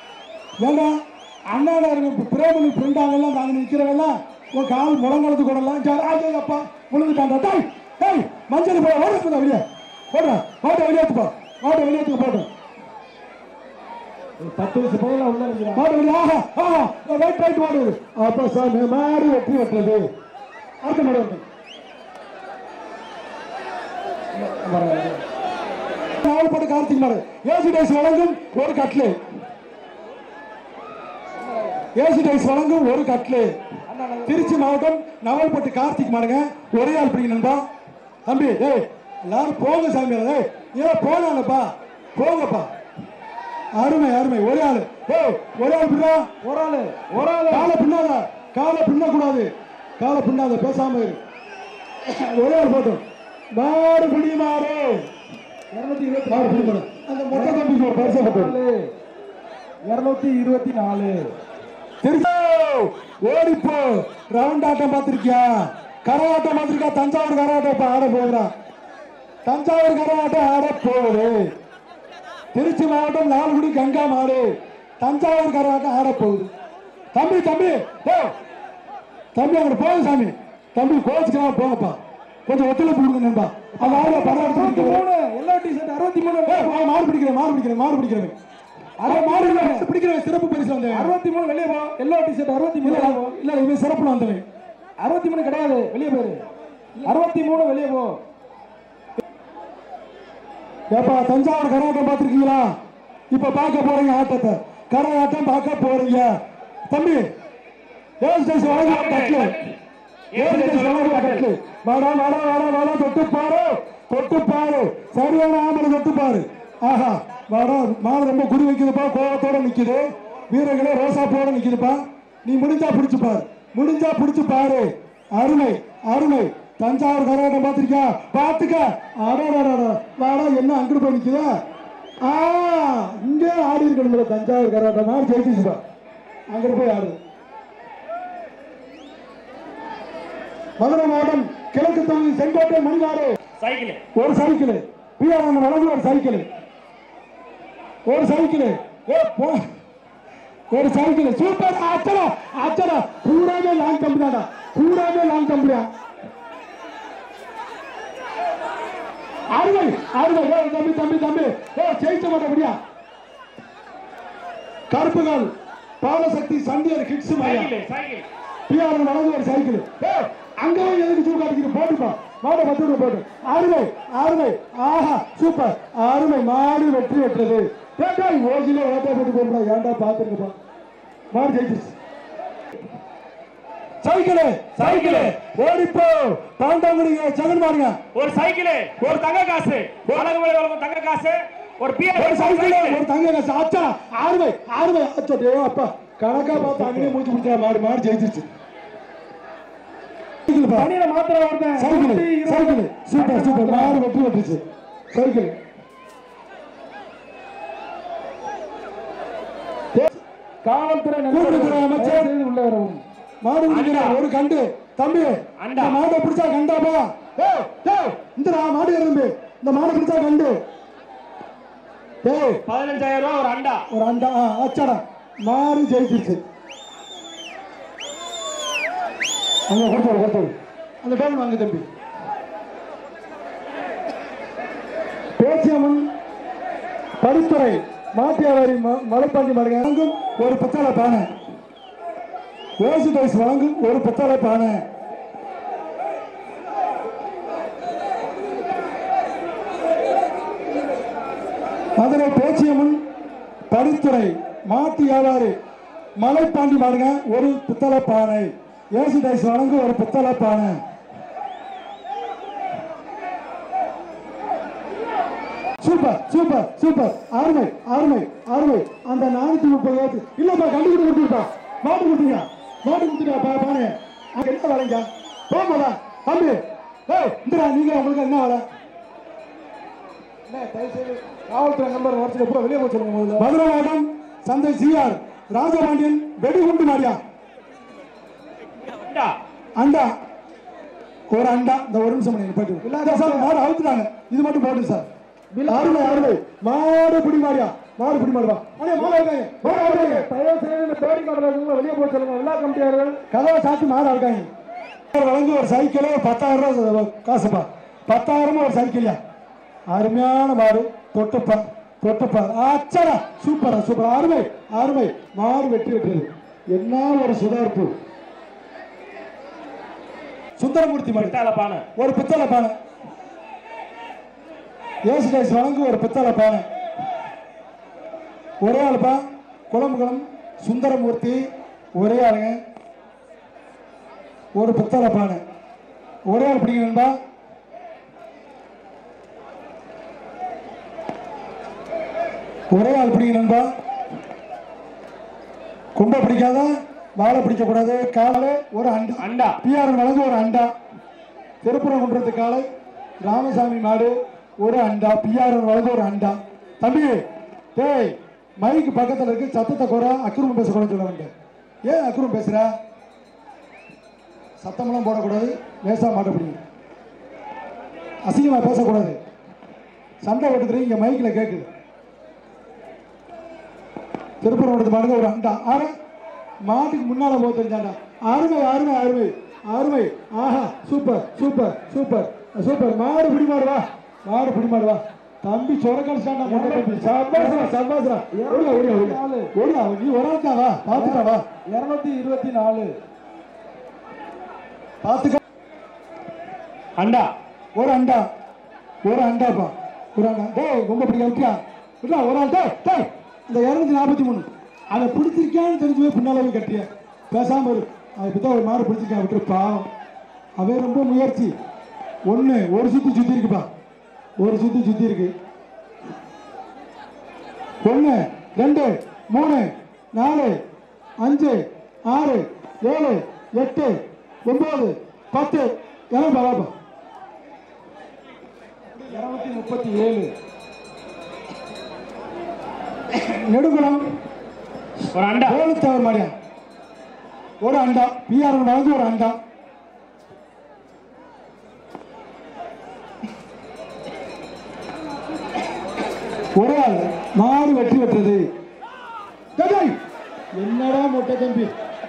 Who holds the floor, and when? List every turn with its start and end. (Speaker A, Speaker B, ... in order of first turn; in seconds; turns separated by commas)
Speaker A: 0.6-12.5, Speaker B: 14.4-15.8, Speaker A: 15.7-20.0, Speaker A: 20.8-21.4, Speaker B: 24.4-25.2, Speaker A: 26.2-29.2, Speaker B: 31.4-31.8, Speaker A: 31.9-33.6, Speaker B: 33.9-34.6, Speaker A: 34.2-37.6, Speaker A: 38.2-42.7, Speaker A: 43.8-46.2, Speaker B: 46.4-47.7, Speaker A: 47.5-51.2, Speaker A: 52.0-53.0, Speaker A: 53.5-55.0, Speaker B: 55.7-56.8, Speaker A: 56.3-58.6, Speaker B: 57.3-58.8, Speaker B: 59.9-61.3, Speaker A: 62.0-65.5, Speaker A: 66.0-68.5, Speaker A: 69.4-71.5, Speaker A: 72.5-74.5, Speaker A: 75.0-76.5, Speaker A: 77.1-78.3, Speaker A: 79.3-85.0, Speaker B: 83.8-86.7, Speaker A: 86.5-88.3, Speaker B: 89.0-89.9, Speaker A: 89.0-91.1, Speaker B: 90.9-93.3, Speaker A: 92.8-94.5, Speaker B: 95.0-96.4, Speaker B: 97.0-98.2, Speaker A: 100.9-102.7, Speaker A: 103.3-106.3, Speaker A: 106.9-107.2, Speaker A: 108.2-109.6, Speaker C: 108.6-109.7, Speaker C: 110.3-111.5, Speaker A: 110.3-131.5, Speaker A: 132.2-135.8, Speaker A: 136.5-137.2, Speaker A: 140.8-143.4, Speaker C: 143.6-144.0, Speaker A: 144.1-146.5, Speaker A: 148.1-149.6, Speaker A: 150.7-155.9, Speaker A: 159.5-162.8, Speaker A: 164.9-167.7, Speaker C: 167.4-168.2, Speaker A: 168.7-180.6, Speaker A: 181.3-181.9, Speaker A: 184.0-188.0, Speaker C: 184.8-185.4, Speaker C: 188.1-193.0, Speaker A: 192.1-198.5, Speaker B: 196.5-197.2, Speaker A: 200.5-200.9, Speaker B: 200.7-204.0, Speaker A: 201.8-205.6, Speaker B: 210.6-213.0, Speaker A: 211.3-212.3, Speaker A: 213.4-220.6, Speaker C: 213.7-214.2, Speaker C: 215.6-216.0, Speaker A: 222.2-222.6, Speaker C: 222.7-223.8, Speaker A: 223.9-226.4, Speaker A: 229.7-231.9, Speaker A: 235.4-236.1, Speaker A: 237.2-241.3, Speaker A: 242.8-244.8, Speaker A: 252.0-253.0, Speaker A: 253.7-255.5, Speaker A: 256.2-260.8, Speaker A: 265.8-278.6, Speaker B: 280.5-283.5, Speaker A: 283.4-287.2, Speaker C: 289.1-289.3, Speaker A: 289.8-290.1, Speaker A: 291.3-295.1, Speaker B: 292.8-293.5, Speaker B: 295.5-296.4, Speaker A: 295.7-300.3, Speaker B: 298.9-303.2, Speaker A: 303.3-304.5, Speaker A: 305.1-309.2, Speaker A: 309.9-317.9, Speaker A: 320.6-321.4, Speaker C: 321.1-321.8, Speaker A: 321.9-322.8, Speaker A: 325.1-326.6, Speaker A: 328.6-332.6, Speaker A: 334.6-335.4, Speaker A: 336.3-337.2, Speaker A: 342.7-343.7, Speaker A: 345.9-350.7, Speaker C: 349.2-349.6, Speaker A: 351.6-352.6, Speaker A: 353.2-357.2, Speaker A: 357.8-361.3, Speaker A: 361.8-362.7, Speaker A: 364.6-366.6, Speaker A: 368.2-369.2, Speaker A: 370.2-371.7, Speaker A: 374.4-375.9, Speaker A: 376.6-391.4, Speaker B: 386.4-387.7, Speaker B: 388.3-389.5, Speaker B: 390.9-392.9, Speaker A: 395.0-395.4, Speaker C: 397.0-397.3, Speaker A: 397.8-398.3, Speaker A: 399.0-409.9, Speaker A: 410.6-411.5, Speaker A: 412.3-413.7, Speaker A: 414.4-415.3, Speaker A: 417.8-420.6, Speaker A: 421.2-426.7, Speaker B: 429.1-430.3, Speaker A: 433.1-434.1, Speaker C: 435.1-435.6, Speaker A: 435.4-436.3, Speaker A: 437.6-439.4, Speaker A: 446.6-448.4, Speaker A: 449.6-449.9, Speaker A: 450.6-451.7